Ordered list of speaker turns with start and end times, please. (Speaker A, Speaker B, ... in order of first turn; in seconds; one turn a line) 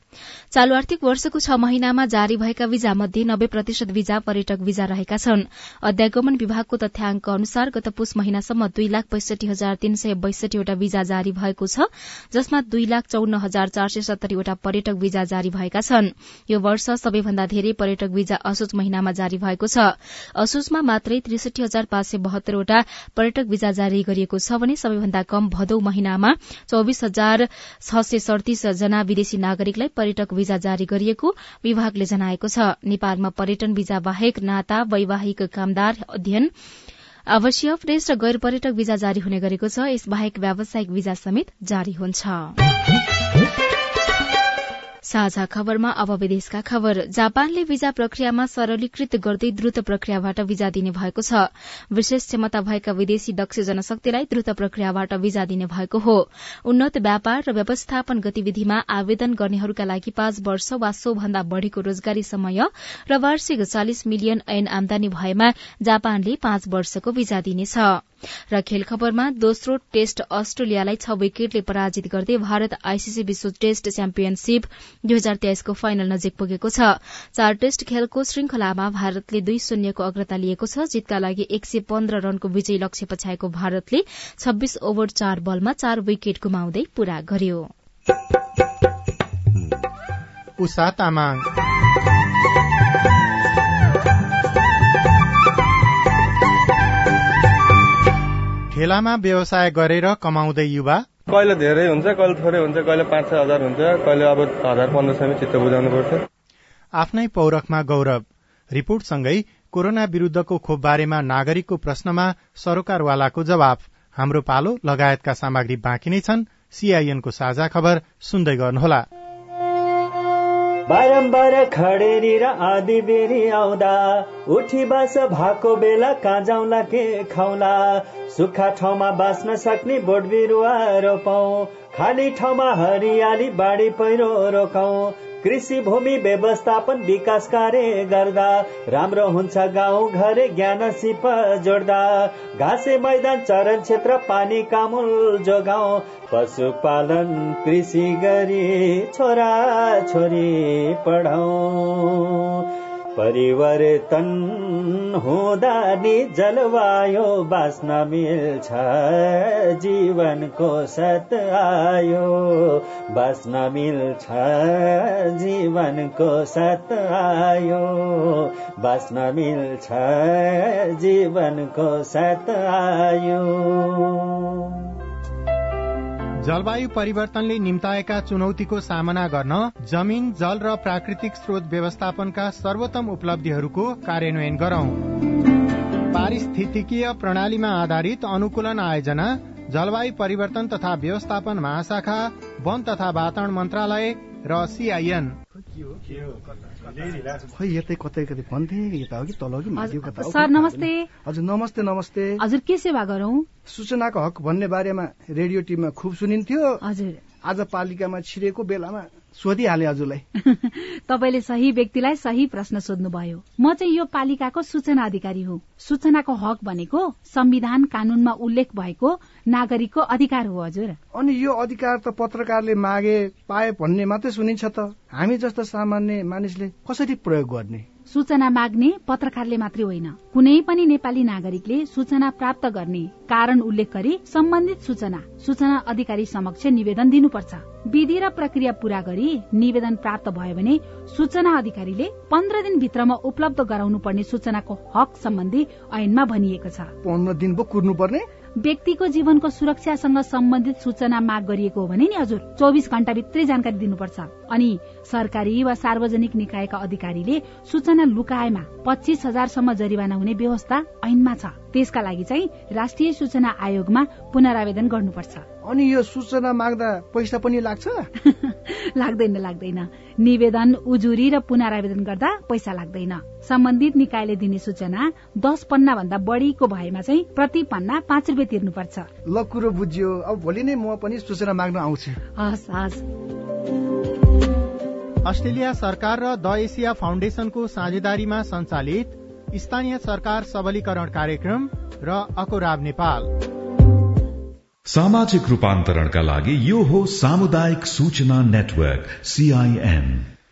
Speaker A: 0.5-36.5
Speaker A: 37.3-42.5
Speaker A: 45.1-87.7
Speaker B: 90.6-91.4
Speaker B: 98.7-101.1
Speaker C: 101.3-106.2
Speaker B: 107.0-119.0
Speaker D: 120.9-152.6
Speaker D: 153.2-174.8
Speaker B: 176.4-185.1
Speaker B: 186.1-195.4
Speaker E: 197.5-202.4
Speaker F: 199.8-201.1
Speaker F: 202.4-203.5
Speaker E: 203.7-206.8
Speaker F: 206.8-207.2
Speaker E: 207.4-210.2
Speaker F: 210.4-221.0
Speaker E: 221.1-227.9
Speaker F: 228.1-246.9
Speaker E: 247.0-248.3
Speaker F: 248.6-265.5
Speaker E: 265.6-268.1
Speaker F: 268.2-279.1
Speaker E: 279.3-282.2
Speaker F: 282.4-283.0
Speaker B: 285.2-293.3
Speaker G: 294.9-300.2